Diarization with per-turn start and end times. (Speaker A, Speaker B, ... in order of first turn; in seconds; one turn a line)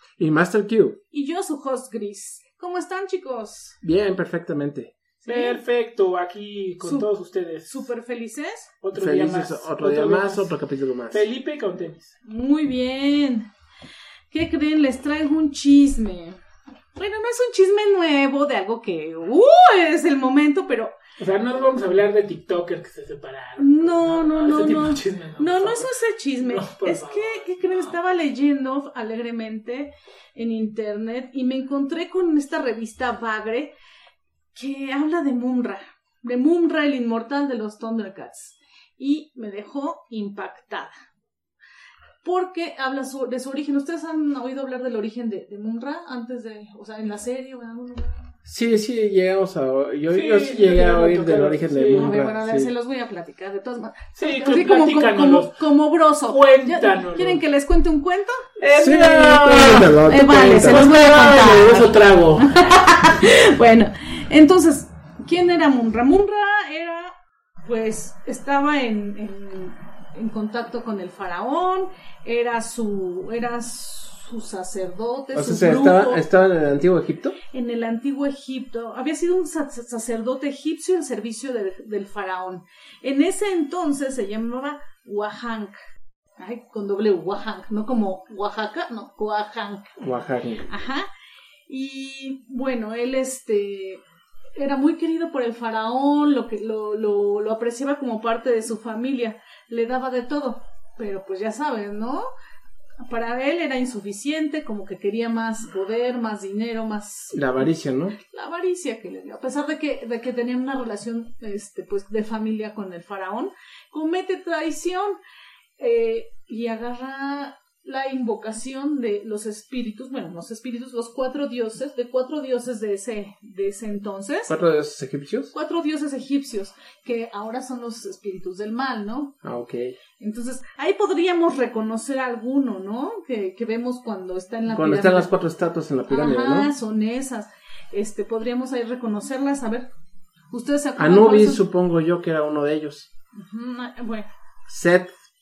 Speaker A: 0.2-1.0
Speaker B: 1.1-3.8
Speaker A: 3.8-4.9
Speaker C: 5.2-7.9
Speaker B: 5.2-5.6
Speaker B: 6.8-7.1
Speaker B: 7.7-8.7
Speaker C: 8.8-10.5
Speaker A: 8.9-11.2
Speaker C: 11.1-12.2
Speaker B: 12.2-13.5
Speaker B: 14.3-16.4
Speaker B: 16.9-20.9
Speaker C: 21.2-27.9
Speaker B: 23.6-33.7
Speaker B: 34.5-40.9
Speaker B: 42.2-48.3
Speaker A: 48.4-52.7
Speaker C: 50.1-52.1
Speaker B: 51.9-76.2
Speaker C: 54.1-55.6
Speaker C: 56.3-57.4
Speaker C: 58.6-59.9
Speaker A: 58.7-60.9
Speaker C: 60.6-62.5
Speaker A: 75.3-77.4
Speaker B: 77.5-85.8
Speaker B: 86.4-89.9
Speaker A: 90.0-90.7
Speaker B: 90.7-91.1
Speaker B: 91.7-94.0
Speaker B: 94.6-102.2
Speaker B: 103.0-107.7
Speaker A: 107.3-108.2
Speaker B: 108.2-115.2
Speaker B: 115.8-124.5
Speaker A: 124.5-125.5
Speaker B: 125.5-129.3
Speaker A: 129.4-129.9
Speaker B: 130.2-135.3
Speaker A: 134.7-136.7
Speaker B: 136.1-139.9
Speaker B: 140.5-141.6
Speaker A: 140.9-143.1
Speaker B: 143.3-144.3
Speaker A: 144.7-145.1